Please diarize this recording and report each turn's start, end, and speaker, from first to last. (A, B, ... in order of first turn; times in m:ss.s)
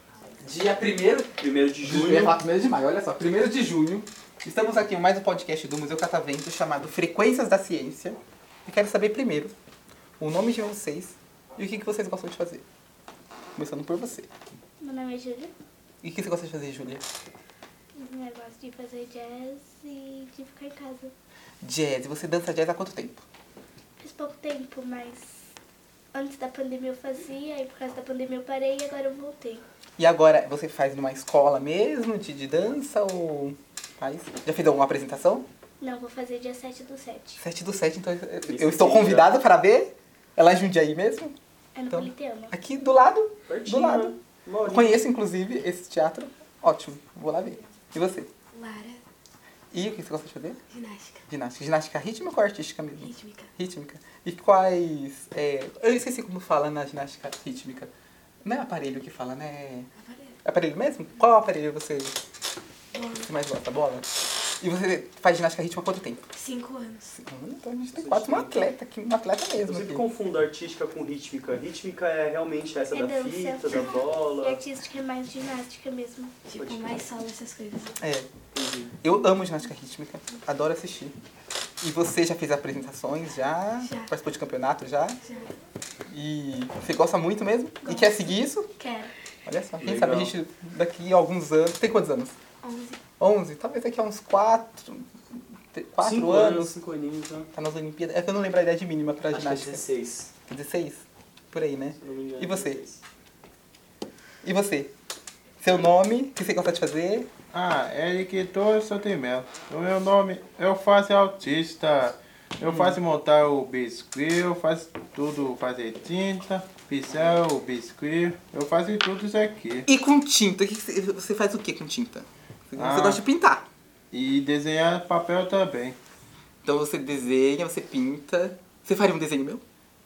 0:00.4-0:01.3 A
0:01.4-0:02.3 B
0:01.8-0:09.6 A
0:10.2-0:12.6 A
0:13.6-0:14.3 A
0:14.8-0:15.5 C
0:16.0-0:17.0 A
0:18.0-0:21.1 C
0:21.6-0:23.2 A
0:24.0-0:25.4 C
0:26.1-0:29.6 C
0:30.0-0:35.5 A
0:35.8-0:37.4 C
0:37.4-0:41.4 A
0:38.5-0:39.3 B
0:41.8-0:42.6 C
0:41.9-0:44.2 A
0:43.5-0:45.0 B
0:44.7-0:48.3 A
0:48.6-0:49.0 D
0:49.7-0:50.6 A
0:50.8-0:51.2 D
0:51.3-0:57.9 A
0:53.0-0:53.4 D
0:58.4-0:59.9 A
1:00.4-1:02.1 A
1:03.0-1:03.2 D
1:03.2-1:04.1 A
1:04.6-1:06.3 A
1:06.4-1:07.1 D
1:07.1-1:10.0 A
1:08.0-1:08.7 B
1:09.6-1:14.6 B
1:12.9-1:16.3 C
1:16.5-1:17.9 D
1:16.6-1:17.1 B
1:18.0-1:18.3 A
1:18.6-1:18.9 B
1:19.0-1:21.1 A
1:21.8-1:25.2 A
1:26.1-1:28.7 A
1:29.4-1:32.4 A
1:29.8-1:30.3 B
1:32.6-1:33.0 D
1:33.2-1:35.1 A
1:35.7-1:36.7 A
1:36.0-1:37.5 B
1:37.5-1:39.8 A
1:39.3-1:40.3 B
1:40.5-1:42.8 A
1:42.0-1:43.0 B
1:44.4-1:44.9 A
1:45.6-1:47.3 A
1:47.5-1:59.9 E
1:52.6-1:53.0 A
1:59.9-2:03.7 A
2:02.8-2:03.2 E
2:04.1-2:06.0 E
2:06.6-2:09.6 A